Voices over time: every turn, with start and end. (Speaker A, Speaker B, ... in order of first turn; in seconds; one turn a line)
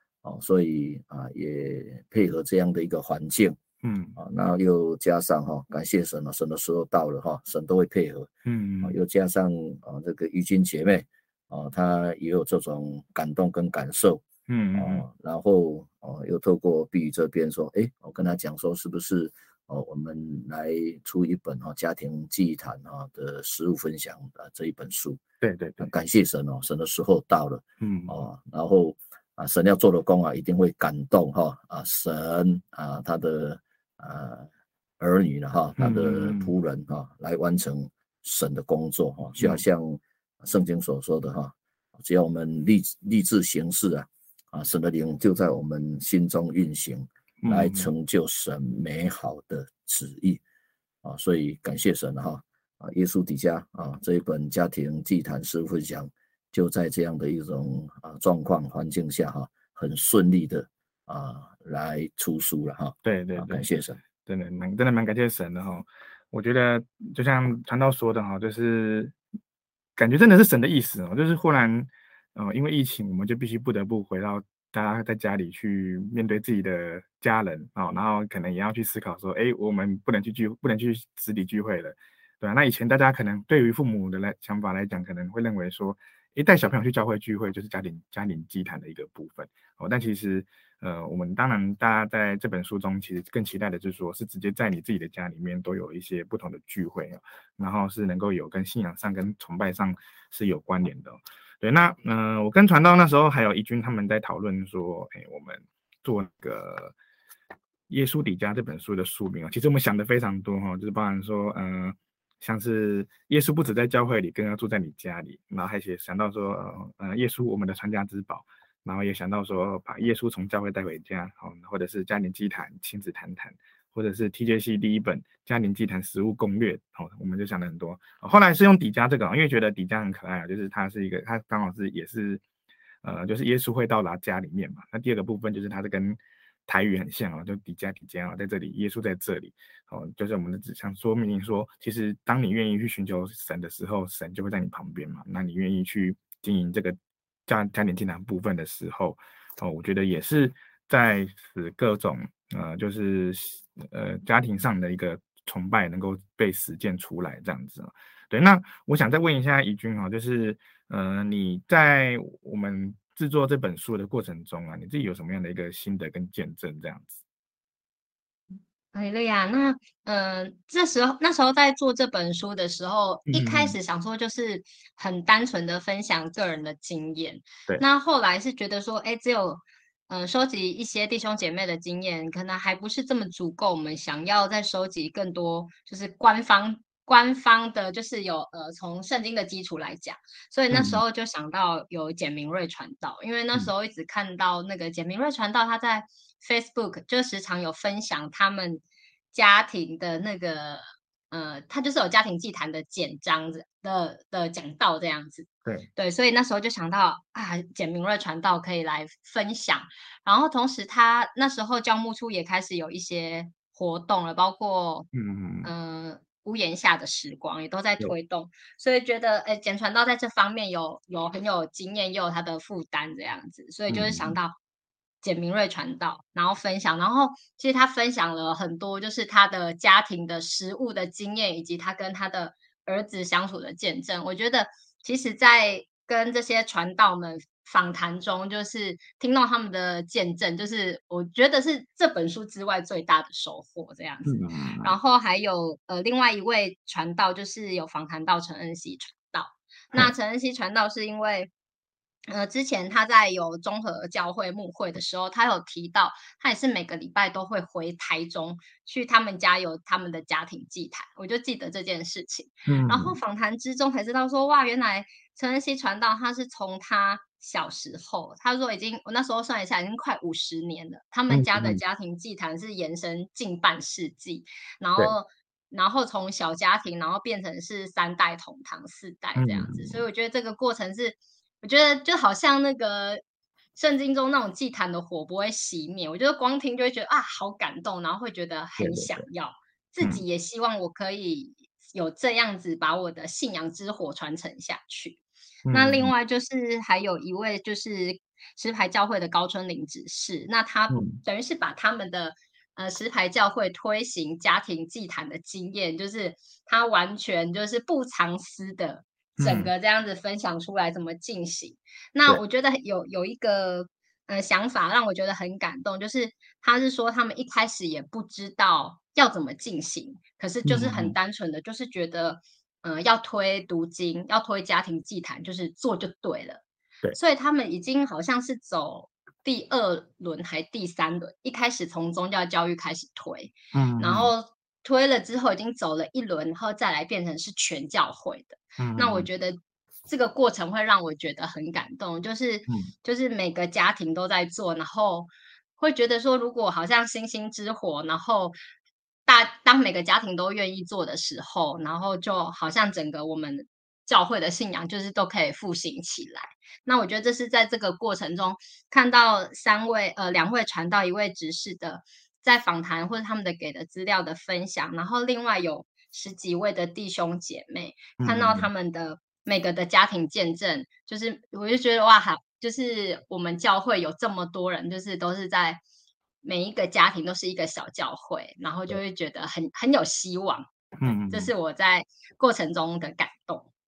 Speaker A: 0.2-3.6
Speaker B: 3.8-4.2
Speaker A: 4.2-8.3
Speaker B: 8.4-8.9
Speaker A: 8.8-14.2
Speaker B: 14.5-15.0
Speaker A: 14.7-25.2
Speaker B: 25.4-25.9
Speaker A: 25.8-34.5
Speaker B: 27.8-28.1
Speaker A: 35.0-50.4
Speaker B: 35.8-36.5
Speaker B: 39.4-39.6
Speaker B: 47.4-47.9
Speaker A: 51.0-64.0
Speaker B: 63.0-63.7
Speaker B: 64.2-69.1
Speaker B: 70.0-106.9
Speaker B: 107.9-132.4
Speaker B: 133.0-167.2
Speaker C: 168.9-215.1
Speaker B: 173.3-173.8
Speaker B: 190.7-191.0
Speaker B: 215.1-215.7
Speaker C: 215.6-224.6
Speaker B: 223.9-224.4
Speaker C: 225.2-251.5
Speaker B: 244.2-244.9
Speaker C: 252.3-283.2
Speaker B: 262.6-263.2
Speaker B: 271.3-271.8
Speaker B: 279.4-280.0
Speaker C: 283.8-295.2
Speaker B: 288.8-289.3
Speaker B: 295.6-296.1
Speaker C: 295.7-326.6
Speaker B: 300.9-301.2
Speaker B: 309.4-309.7
Speaker B: 320.6-321.1
Speaker C: 327.1-348.6
Speaker B: 333.7-334.3
Speaker B: 338.8-339.3
Speaker C: 349.2-375.8
Speaker B: 368.2-368.7
Speaker C: 376.4-383.7
Speaker B: 381.0-381.5